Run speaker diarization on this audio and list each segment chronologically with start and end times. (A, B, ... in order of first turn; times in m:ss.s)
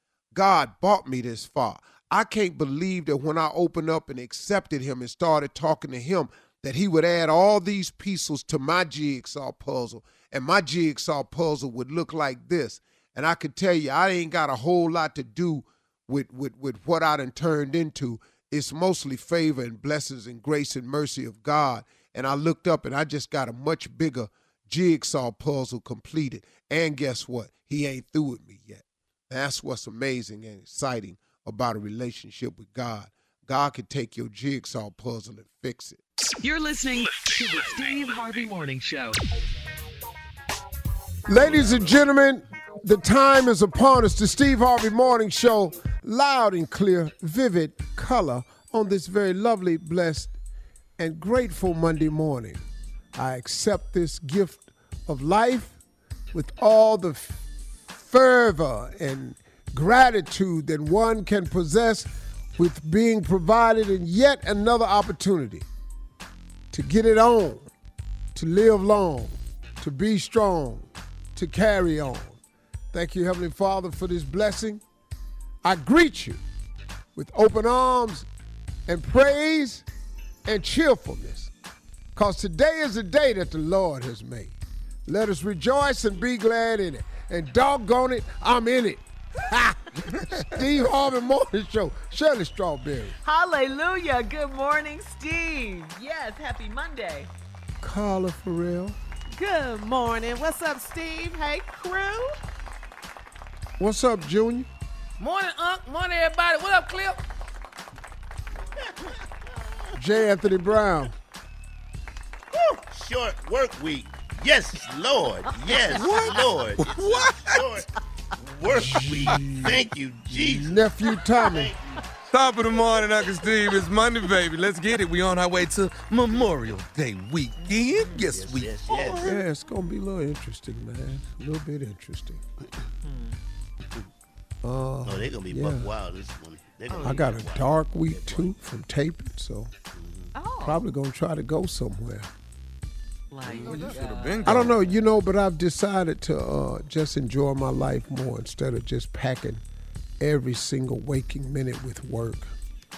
0:00.3-0:36.0 A
0:36.4-0:39.2 B
0:41.3-0:50.3 A
0:51.0-0:52.6 A
0:53.2-0:55.8 A
0:56.3-1:05.7 A
1:06.7-1:07.7 A
1:08.3-1:12.4 A
1:12.9-1:14.8 A
1:15.6-1:16.4 A
1:17.2-1:18.3 A
1:18.9-1:19.8 A
1:20.5-1:21.5 A
1:22.2-1:33.2 A
1:33.2-1:37.3 C
1:37.8-1:39.0 A
1:39.3-1:42.4 D
1:43.8-1:44.7 A
1:45.2-1:47.2 E
1:50.0-1:51.1 A
1:52.5-2:00.9 F
1:55.7-1:56.2 C
1:55.9-1:57.7 G
1:58.7-2:01.7 A
2:01.4-2:02.0 F
2:02.3-2:09.4 G
2:07.6-2:08.3 C
2:08.3-2:09.2 F
2:09.2-2:12.4 A
2:13.0-2:13.4 C
2:14.6-2:15.9 A
2:15.0-2:18.5 F
2:16.9-2:17.4 C
2:17.0-2:19.7 A
2:19.9-2:20.3 F
2:20.4-2:20.8 C
2:20.6-2:22.3 A
2:23.3-2:24.9 C
2:23.4-2:24.0 F
2:23.6-2:24.0 E
2:23.7-2:24.8 G
2:24.4-2:29.6 A
2:30.2-2:32.5 A